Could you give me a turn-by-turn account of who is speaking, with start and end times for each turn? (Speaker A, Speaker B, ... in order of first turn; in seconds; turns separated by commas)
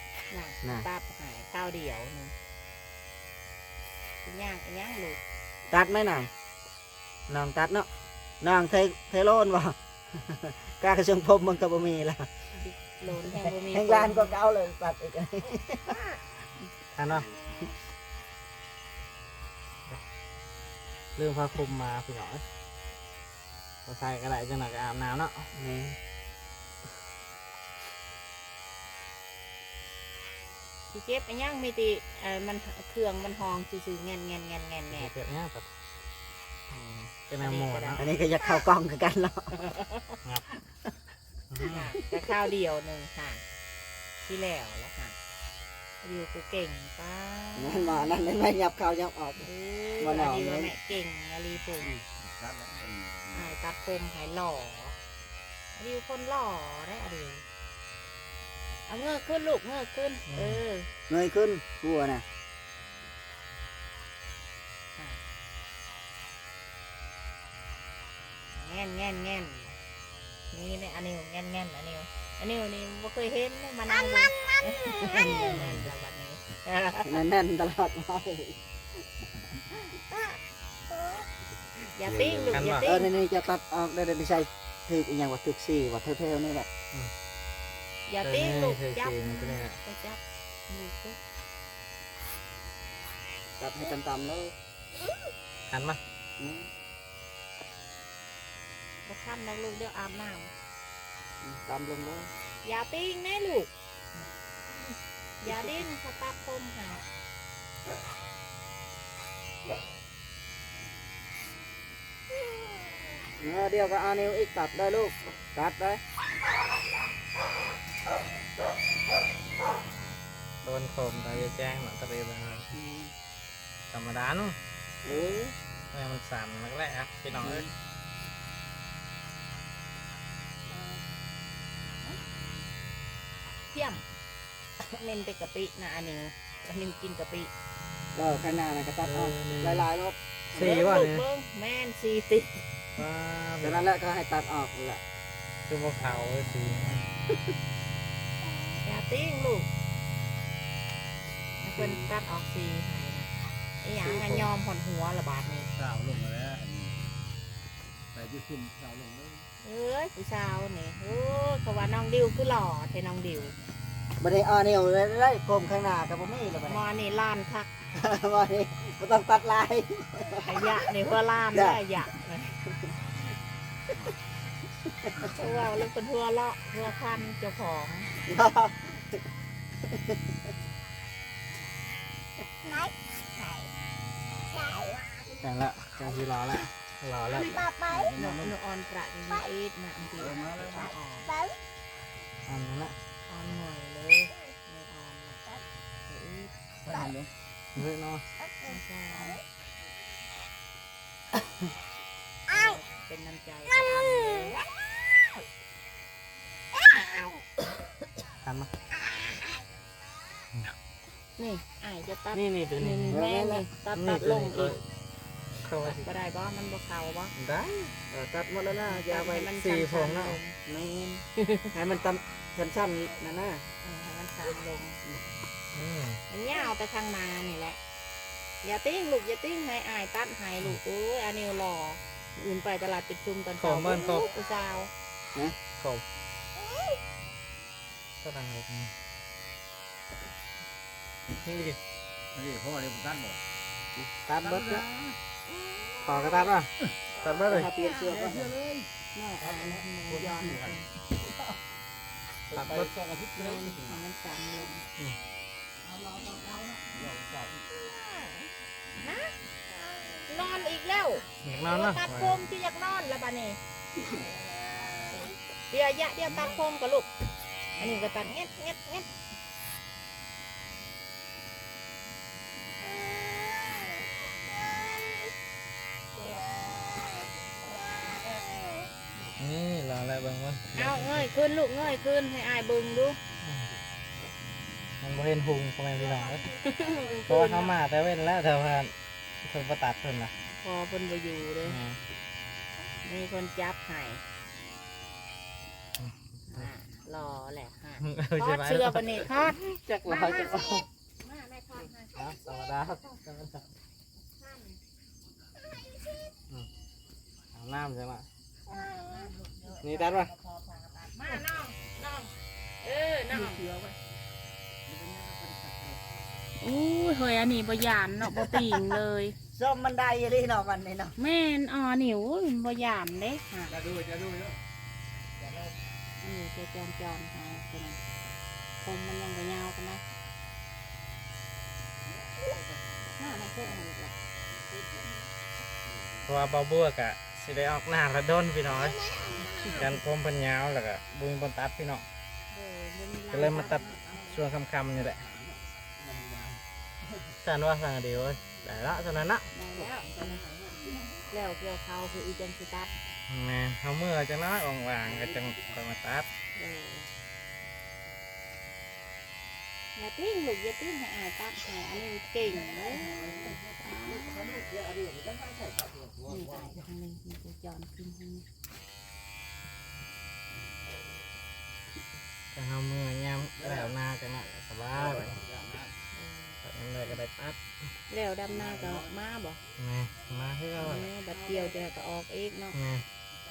Speaker A: 0.3-2.3, Speaker A: 4.2-5.2, Speaker B: 5.7-6.3, Speaker B: 7.3-7.9, Speaker B: 8.4-12.3, Speaker A: 12.5-14.4, Speaker B: 13.2-15.9, Speaker C: 16.9-17.3, Speaker C: 21.1-22.4, Speaker C: 23.9-25.5, Speaker B: 25.5-26.0, Speaker A: 30.9-35.1, Speaker C: 34.9-35.7, Speaker C: 36.7-38.0, Speaker A: 37.4-38.1, Speaker B: 38.0-39.6, Speaker A: 39.5-40.1, Speaker C: 41.5-41.9, Speaker A: 41.6-43.4, Speaker A: 44.2-45.1, Speaker A: 46.0-48.3, Speaker B: 47.5-49.5, Speaker A: 49.4-51.9, Speaker B: 50.0-50.7, Speaker D: 52.2-53.5, Speaker A: 53.3-55.0, Speaker A: 55.7-57.4, Speaker A: 58.9-60.9, Speaker C: 60.3-60.6, Speaker B: 61.1-62.2, Speaker A: 65.0-65.2, Speaker A: 68.5-69.7, Speaker A: 70.5-77.2, Speaker E: 74.0-75.2, Speaker B: 75.0-75.7, Speaker C: 75.4-75.8, Speaker B: 77.0-78.6, Speaker A: 81.9-83.1, Speaker B: 82.1-86.7, Speaker D: 82.1-82.5, Speaker C: 82.5-82.9, Speaker A: 88.1-91.2, Speaker C: 88.2-89.8, Speaker B: 93.6-94.5, Speaker C: 95.7-96.0, Speaker B: 96.4-96.7, Speaker A: 99.0-100.5, Speaker B: 101.4-102.3, Speaker A: 102.6-103.7, Speaker A: 105.4-107.0, Speaker B: 105.4-105.8, Speaker B: 113.4-116.0, Speaker C: 120.6-122.7, Speaker B: 122.7-123.1, Speaker C: 123.9-124.6, Speaker B: 125.0-125.5, Speaker A: 125.1-125.4, Speaker C: 125.9-127.7, Speaker B: 127.4-127.7, Speaker A: 133.7-134.0, Speaker A: 134.8-137.5, Speaker B: 138.1-140.7, Speaker C: 139.0-139.9, Speaker C: 140.5-141.2, Speaker A: 140.5-142.6, Speaker C: 143.0-143.9, Speaker B: 143.6-145.0, Speaker C: 145.7-147.1, Speaker A: 148.8-149.7, Speaker A: 151.6-153.3, Speaker A: 153.8-155.7, Speaker B: 154.0-154.5, Speaker D: 155.7-157.0, Speaker D: 158.1-159.5, Speaker A: 159.6-163.5, Speaker B: 164.2-166.8, Speaker A: 166.7-167.7, Speaker B: 167.9-170.9, Speaker A: 170.3-172.5, Speaker B: 171.5-171.8, Speaker B: 174.8-175.3, Speaker A: 175.2-178.1, Speaker B: 178.2-179.2, Speaker B: 179.8-180.3, Speaker E: 182.6-183.7, Speaker E: 184.5-185.3, Speaker C: 185.4-187.6, Speaker E: 187.4-188.1, Speaker D: 187.8-188.6, Speaker A: 188.1-191.3, Speaker D: 190.2-190.9, Speaker E: 191.3-191.6, Speaker C: 192.4-192.9, Speaker A: 193.3-195.4, Speaker A: 196.1-196.5, Speaker D: 196.8-197.3, Speaker C: 197.7-198.2, Speaker A: 198.6-199.4, Speaker A: 202.5-204.6, Speaker C: 208.4-208.7, Speaker A: 211.4-214.8, Speaker C: 212.3-213.2, Speaker B: 213.1-213.7, Speaker C: 213.9-214.8, Speaker C: 215.6-216.1, Speaker A: 215.8-217.3, Speaker C: 217.4-217.8, Speaker B: 217.9-219.5, Speaker A: 218.8-220.6, Speaker C: 219.5-220.4, Speaker B: 220.7-223.6, Speaker C: 221.4-221.7, Speaker A: 223.8-225.0, Speaker C: 225.7-226.2, Speaker A: 226.3-227.8, Speaker A: 228.6-234.9, Speaker C: 233.6-234.3, Speaker C: 235.8-236.0, Speaker C: 238.2-238.9, Speaker C: 241.4-241.8, Speaker D: 242.3-243.4, Speaker B: 243.9-244.8, Speaker D: 244.4-245.2, Speaker C: 246.0-247.7, Speaker B: 247.4-248.5, Speaker D: 247.8-251.5, Speaker A: 249.1-250.8, Speaker D: 252.5-254.0, Speaker C: 252.5-252.9, Speaker A: 253.3-254.8, Speaker D: 255.8-257.7, Speaker E: 258.1-258.3, Speaker A: 259.0-259.3, Speaker E: 259.7-260.3, Speaker A: 260.3-263.6, Speaker C: 261.4-262.4, Speaker E: 264.8-265.3, Speaker A: 265.1-267.1, Speaker A: 267.8-269.1, Speaker E: 272.8-275.3, Speaker E: 276.2-277.3, Speaker E: 277.9-278.9, Speaker C: 279.4-281.2, Speaker A: 280.8-283.2, Speaker C: 283.4-283.7, Speaker C: 285.0-286.5, Speaker A: 286.6-287.7, Speaker C: 287.3-288.9, Speaker C: 289.4-290.3, Speaker A: 290.6-291.8, Speaker C: 291.6-292.0, Speaker A: 293.0-294.2, Speaker C: 296.0-296.7, Speaker A: 296.5-302.4, Speaker C: 298.0-300.8, Speaker C: 302.1-303.6, Speaker A: 304.4-304.8, Speaker C: 307.5-308.2, Speaker A: 308.7-313.6, Speaker C: 309.8-310.3, Speaker B: 313.3-313.9, Speaker D: 314.9-316.0, Speaker A: 316.6-319.3, Speaker B: 318.2-321.1, Speaker A: 321.2-323.7, Speaker D: 323.7-324.6, Speaker A: 326.2-328.1, Speaker A: 328.8-330.0, Speaker D: 332.1-335.3, Speaker A: 333.2-334.1, Speaker D: 335.8-336.4, Speaker C: 336.2-339.0, Speaker E: 338.8-339.8, Speaker C: 339.6-342.0, Speaker A: 342.5-343.9, Speaker C: 343.3-345.2, Speaker D: 346.0-346.6, Speaker C: 347.4-349.5, Speaker A: 349.5-350.4, Speaker B: 350.5-350.7, Speaker A: 351.3-352.9, Speaker C: 353.3-356.3, Speaker A: 356.5-357.1, Speaker A: 359.9-364.6, Speaker D: 362.6-364.9, Speaker B: 364.0-365.9, Speaker D: 365.6-366.8, Speaker A: 366.3-368.4, Speaker C: 372.5-375.4, Speaker D: 373.6-373.9, Speaker D: 374.9-376.0, Speaker A: 376.1-376.6, Speaker C: 376.6-377.6, Speaker A: 378.1-379.6, Speaker D: 378.5-379.1, Speaker C: 379.8-381.1, Speaker A: 380.8-382.8, Speaker C: 382.7-383.0